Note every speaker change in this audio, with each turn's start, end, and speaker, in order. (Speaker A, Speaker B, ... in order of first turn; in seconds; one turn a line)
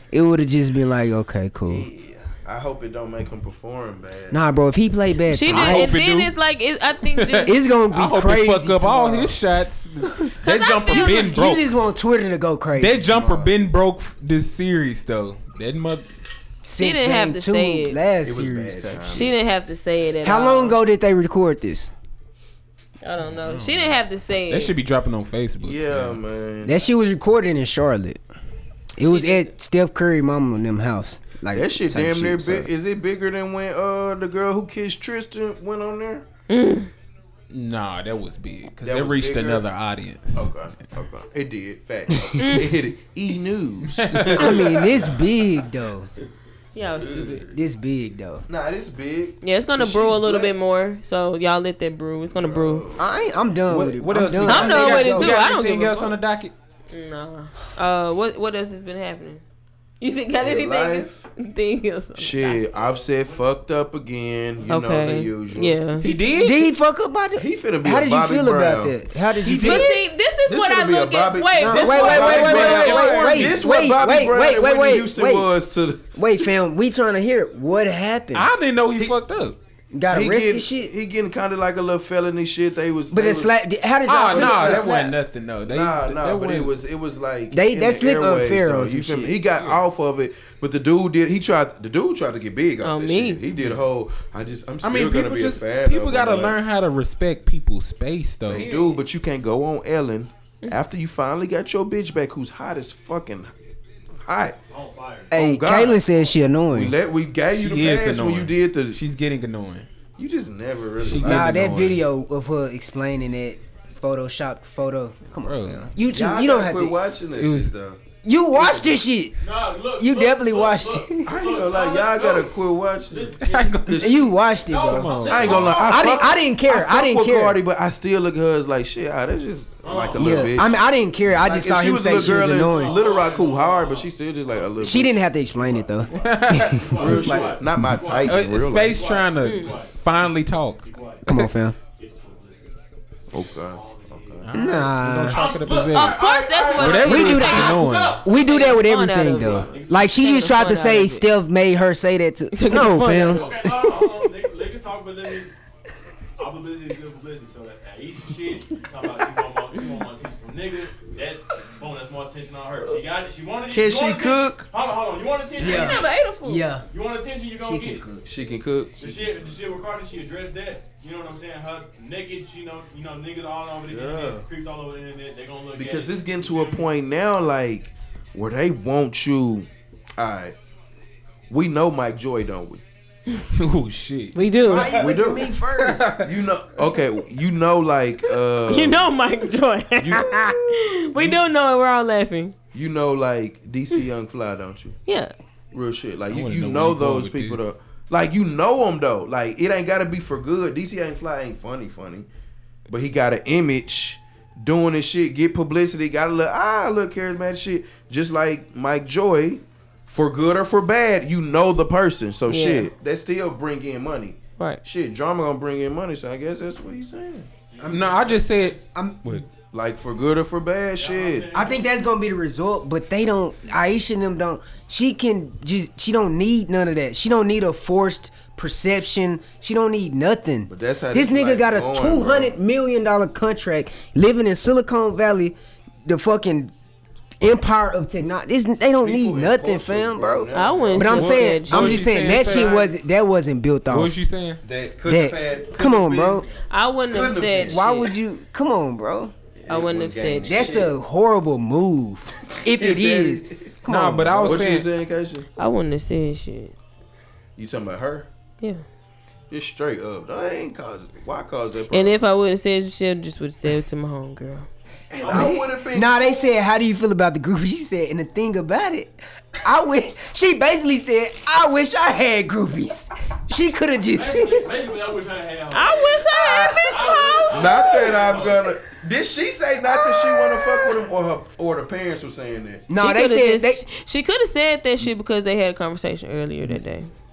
Speaker A: 0.1-1.9
Speaker B: 1.7-4.4
Speaker A: 4.3-5.9
Speaker C: 5.3-7.5
Speaker D: 5.5-6.3
Speaker D: 7.0-11.7
Speaker A: 7.5-9.4
Speaker C: 10.4-11.3
Speaker A: 10.9-13.5
Speaker D: 12.8-16.1
Speaker A: 16.6-19.3
Speaker C: 16.8-18.0
Speaker B: 18.2-19.4
Speaker C: 19.1-20.8
Speaker A: 20.2-21.9
Speaker C: 23.0-24.7
Speaker D: 23.3-24.0
Speaker D: 24.5-26.2
Speaker B: 25.6-26.8
Speaker A: 26.6-28.2
Speaker A: 28.9-32.7
Speaker C: 29.0-29.5
Speaker B: 31.5-36.2
Speaker C: 36.5-36.9
Speaker D: 37.5-40.5
Speaker B: 38.8-39.7
Speaker B: 40.4-45.3
Speaker C: 42.4-42.7
Speaker D: 43.9-44.7
Speaker A: 44.3-46.1
Speaker C: 46.7-47.5
Speaker B: 47.0-47.5
Speaker A: 47.3-48.5
Speaker B: 48.5-50.5
Speaker C: 49.4-52.9
Speaker B: 52.3-53.1
Speaker A: 53.0-55.4
Speaker D: 53.7-56.5
Speaker C: 54.5-56.2
Speaker C: 56.9-59.4
Speaker C: 60.0-62.6
Speaker B: 60.4-61.2
Speaker B: 62.2-66.1
Speaker E: 62.7-63.5
Speaker C: 64.7-66.1
Speaker D: 66.0-66.7
Speaker A: 66.1-69.9
Speaker B: 67.4-69.0
Speaker D: 69.4-69.9
Speaker C: 69.6-73.4
Speaker B: 70.5-76.2
Speaker A: 71.6-75.5
Speaker D: 71.7-73.6
Speaker A: 76.2-78.5
Speaker D: 78.3-79.6
Speaker A: 79.9-80.9
Speaker B: 80.1-83.6
Speaker A: 83.1-85.1
Speaker D: 84.1-86.7
Speaker B: 84.3-85.1
Speaker B: 85.7-96.6
Speaker A: 87.5-89.4
Speaker D: 89.6-89.8
Speaker C: 92.8-93.4
Speaker D: 93.5-93.8
Speaker D: 94.8-98.7
Speaker B: 98.5-103.5
Speaker C: 98.5-99.0
Speaker B: 104.3-104.6
Speaker E: 104.7-105.4
Speaker A: 105.3-107.0
Speaker B: 105.3-106.0
Speaker B: 106.7-109.0
Speaker D: 107.5-109.9
Speaker B: 110.2-111.8
Speaker D: 111.0-112.0
Speaker A: 111.2-117.0
Speaker D: 115.4-115.9
Speaker B: 116.1-118.0
Speaker D: 117.4-117.7
Speaker A: 118.2-119.3
Speaker B: 118.5-119.0
Speaker E: 119.4-123.9
Speaker A: 120.0-121.3
Speaker B: 121.3-130.8
Speaker D: 123.4-124.1
Speaker A: 124.0-127.6
Speaker E: 124.6-126.4
Speaker D: 124.9-125.8
Speaker E: 129.8-130.7
Speaker A: 130.2-133.0
Speaker B: 131.3-135.2
Speaker E: 132.2-134.7
Speaker A: 134.8-136.9
Speaker E: 135.6-141.3
Speaker D: 136.1-137.7
Speaker B: 137.0-139.0
Speaker D: 138.2-140.9
Speaker C: 139.4-139.8
Speaker A: 141.3-141.8
Speaker E: 142.0-142.7
Speaker B: 143.3-144.6
Speaker E: 143.5-144.5
Speaker D: 144.5-146.2
Speaker A: 144.5-145.4
Speaker E: 145.2-148.2
Speaker C: 145.8-151.2
Speaker D: 146.8-148.2
Speaker A: 147.1-154.0
Speaker E: 149.7-150.1
Speaker C: 152.5-153.5
Speaker E: 153.1-155.5
Speaker E: 156.4-166.1
Speaker B: 163.7-164.7
Speaker A: 165.6-166.8
Speaker C: 165.6-166.7
Speaker E: 166.9-168.1
Speaker A: 167.6-168.2
Speaker B: 168.2-169.3
Speaker E: 169.0-176.9
Speaker B: 173.9-174.4
Speaker B: 175.8-180.6
Speaker B: 181.5-182.8
Speaker D: 183.5-185.0
Speaker C: 184.3-185.1
Speaker A: 184.6-186.1
Speaker B: 185.0-185.6
Speaker D: 185.6-186.3
Speaker B: 186.2-189.1
Speaker C: 188.7-192.5
Speaker B: 190.0-190.6
Speaker A: 190.2-190.5
Speaker B: 191.2-191.4
Speaker B: 192.7-195.0
Speaker C: 195.1-195.3
Speaker B: 195.7-202.3
Speaker D: 196.3-197.7
Speaker B: 202.9-217.5
Speaker C: 212.5-212.9
Speaker E: 217.7-218.7
Speaker A: 217.8-218.2
Speaker D: 217.9-219.5
Speaker A: 218.9-219.4
Speaker B: 219.7-221.5
Speaker E: 221.0-221.9
Speaker A: 221.5-236.7
Speaker B: 230.7-232.5
Speaker A: 237.4-244.1
Speaker B: 239.0-242.9
Speaker C: 240.5-242.1
Speaker D: 241.2-242.8
Speaker D: 243.9-244.6
Speaker B: 244.6-246.5
Speaker A: 245.1-246.5
Speaker C: 246.7-248.1
Speaker B: 247.1-247.8
Speaker A: 247.7-249.3
Speaker B: 249.6-250.9
Speaker C: 249.7-250.8
Speaker A: 250.4-254.6
Speaker B: 252.5-253.8
Speaker D: 253.9-254.9
Speaker B: 254.4-255.5
Speaker C: 255.6-256.7
Speaker B: 257.6-258.3
Speaker B: 259.5-262.2
Speaker C: 261.9-264.7
Speaker B: 265.1-266.5
Speaker E: 265.2-265.6
Speaker A: 265.2-274.9
Speaker E: 274.1-276.2
Speaker C: 275.7-278.1
Speaker B: 276.4-276.9
Speaker E: 276.8-278.7
Speaker B: 277.5-282.9
Speaker C: 279.9-281.0
Speaker A: 282.9-283.8
Speaker C: 283.0-287.1